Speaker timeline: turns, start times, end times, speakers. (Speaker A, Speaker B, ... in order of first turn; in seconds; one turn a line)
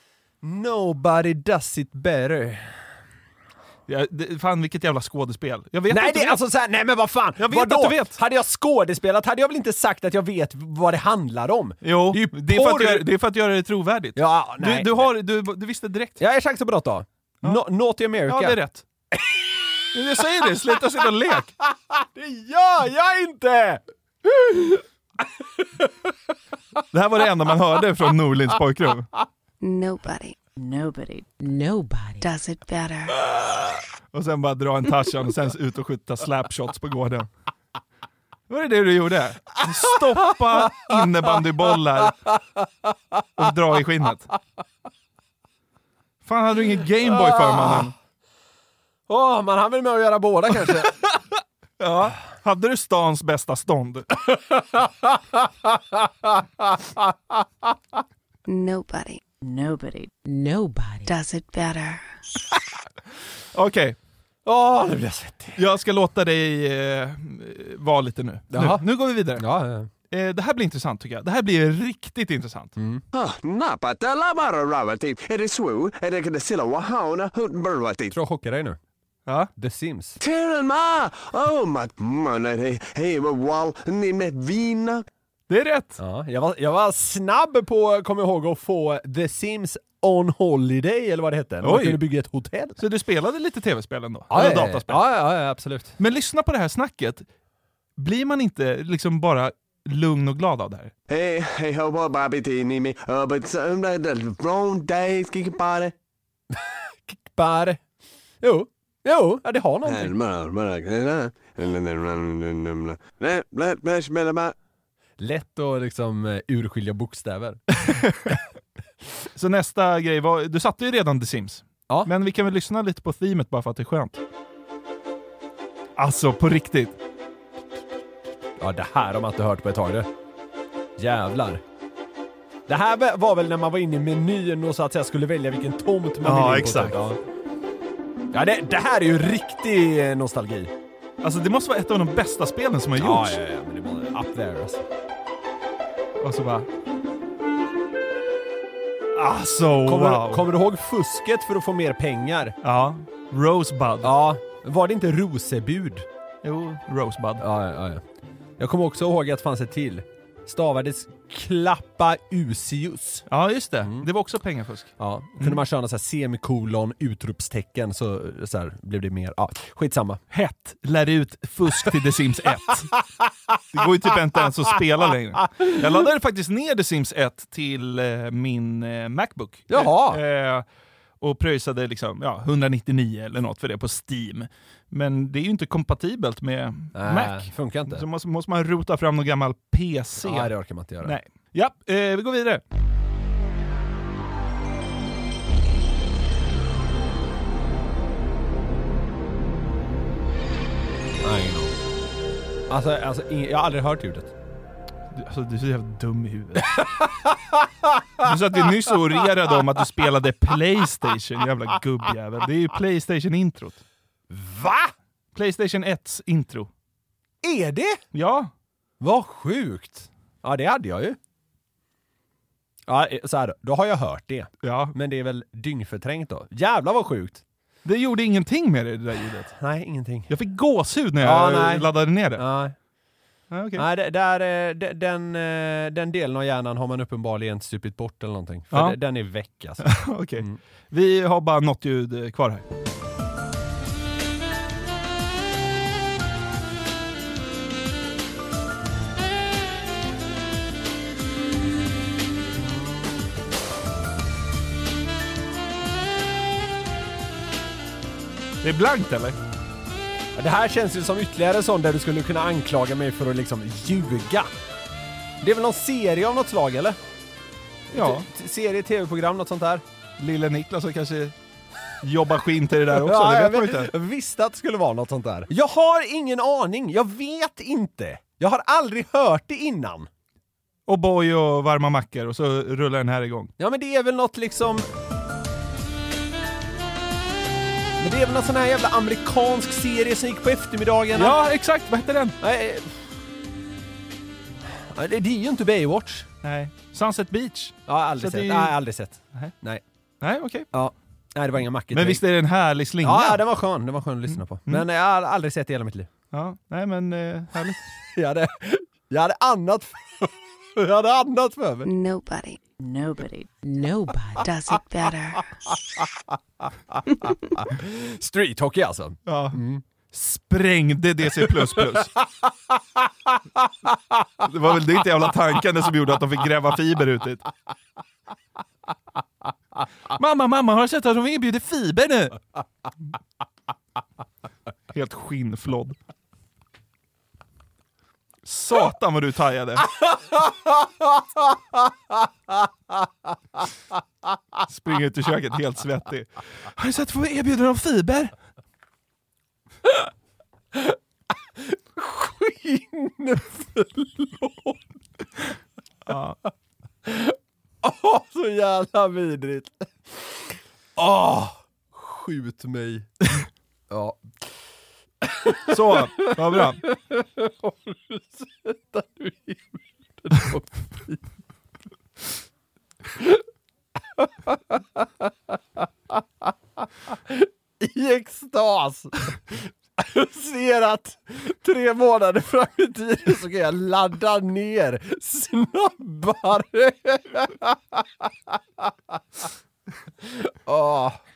Speaker A: 0.4-2.8
Speaker B: 3.9-6.4
Speaker A: 5.9-13.1
Speaker B: 7.4-8.2
Speaker B: 11.8-16.2
Speaker A: 14.2-15.1
Speaker A: 16.2-18.6
Speaker B: 18.2-18.8
Speaker A: 19.1-19.7
Speaker B: 19.9-21.5
Speaker A: 21.9-26.1
Speaker B: 26.9-29.1
Speaker C: 29.6-30.4
Speaker D: 30.6-32.2
Speaker C: 32.2-33.1
Speaker B: 34.1-37.3
Speaker B: 38.5-42.2
Speaker A: 40.1-41.0
Speaker A: 42.0-43.2
Speaker B: 43.4-44.3
Speaker B: 46.2-47.9
Speaker A: 47.0-47.9
Speaker A: 49.1-50.9
Speaker B: 50.6-51.2
Speaker B: 51.8-54.1
Speaker A: 54.3-57.7
Speaker C: 58.5-59.2
Speaker D: 59.4-61.1
Speaker C: 61.0-62.0
Speaker B: 63.5-64.0
Speaker A: 64.4-65.6
Speaker B: 65.6-69.5
Speaker A: 68.5-69.9
Speaker B: 70.1-72.8
Speaker A: 72.8-73.0
Speaker E: 73.1-78.1
Speaker A: 78.1-78.8
Speaker A: 79.6-80.2
Speaker E: 80.2-85.0
Speaker B: 85.5-86.0
Speaker A: 86.0-92.8
Speaker B: 91.6-92.0
Speaker B: 92.8-95.0
Speaker A: 94.3-96.0
Speaker B: 96.0-97.2
Speaker B: 98.0-100.9
Speaker E: 101.1-105.9
Speaker A: 106.5-107.8
Speaker A: 108.4-110.1
Speaker E: 109.8-114.5
Speaker A: 115.2-117.6
Speaker B: 117.8-118.4
Speaker B: 119.3-124.2
Speaker B: 126.0-126.9
Speaker A: 128.6-130.1
Speaker A: 131.0-131.6
Speaker A: 132.7-137.2
Speaker B: 136.2-136.9
Speaker A: 138.3-140.7
Speaker B: 141.2-143.4
Speaker A: 143.0-144.8
Speaker B: 146.2-146.7
Speaker B: 149.1-150.5
Speaker A: 149.8-152.5
Speaker B: 152.6-154.2
Speaker A: 154.0-156.1
Speaker B: 156.4-157.4
Speaker A: 157.4-158.0
Speaker A: 158.6-163.2
Speaker B: 163.3-165.6
Speaker A: 165.0-170.2
Speaker B: 170.3-172.9
Speaker B: 173.7-180.6
Speaker A: 179.7-180.2
Speaker B: 181.2-190.5
Speaker A: 186.9-188.0
Speaker A: 190.2-191.2
Speaker B: 191.0-192.6
Speaker A: 201.2-201.7
Speaker A: 202.7-204.3
Speaker B: 205.1-206.8
Speaker A: 206.8-208.3
Speaker B: 208.2-213.8
Speaker A: 214.3-214.9
Speaker B: 215.3-216.7
Speaker A: 217.4-218.0
Speaker B: 218.1-218.5
Speaker A: 219.0-221.2
Speaker A: 222.9-227.4
Speaker B: 224.6-224.9
Speaker B: 227.8-229.5
Speaker A: 229.6-230.3
Speaker B: 230.3-232.4
Speaker A: 231.2-232.8
Speaker B: 233.5-233.8
Speaker A: 233.8-240.6
Speaker B: 238.7-239.0
Speaker B: 239.8-242.6
Speaker B: 258.6-259.4
Speaker A: 260.3-264.5
Speaker A: 265.4-267.0
Speaker B: 267.9-268.2
Speaker A: 267.9-269.8
Speaker B: 270.2-271.3
Speaker B: 272.0-273.9
Speaker A: 272.9-280.1
Speaker B: 280.9-283.5
Speaker A: 283.6-284.8
Speaker A: 288.0-291.4
Speaker B: 291.1-292.4
Speaker A: 292.4-293.0
Speaker A: 294.9-296.3
Speaker B: 296.4-298.7
Speaker A: 297.9-299.8
Speaker B: 300.2-300.6
Speaker A: 300.7-302.2
Speaker B: 301.9-303.4
Speaker A: 303.0-306.1
Speaker B: 306.3-307.8
Speaker A: 308.1-311.9
Speaker C: 311.8-312.6
Speaker D: 312.8-314.4
Speaker C: 314.4-315.4
Speaker A: 316.9-319.8
Speaker B: 319.3-319.6
Speaker B: 320.1-322.1
Speaker A: 322.4-323.0
Speaker B: 324.4-327.4
Speaker B: 330.1-332.4
Speaker B: 334.9-335.9
Speaker B: 338.4-339.9
Speaker A: 340.4-341.2
Speaker B: 344.6-348.3
Speaker A: 349.8-350.1
Speaker A: 351.6-354.9
Speaker B: 356.1-356.4
Speaker A: 357.0-363.1
Speaker A: 363.9-364.5
Speaker A: 365.2-371.2
Speaker B: 365.7-366.8
Speaker A: 373.1-373.4
Speaker A: 374.2-388.9
Speaker A: 390.2-391.2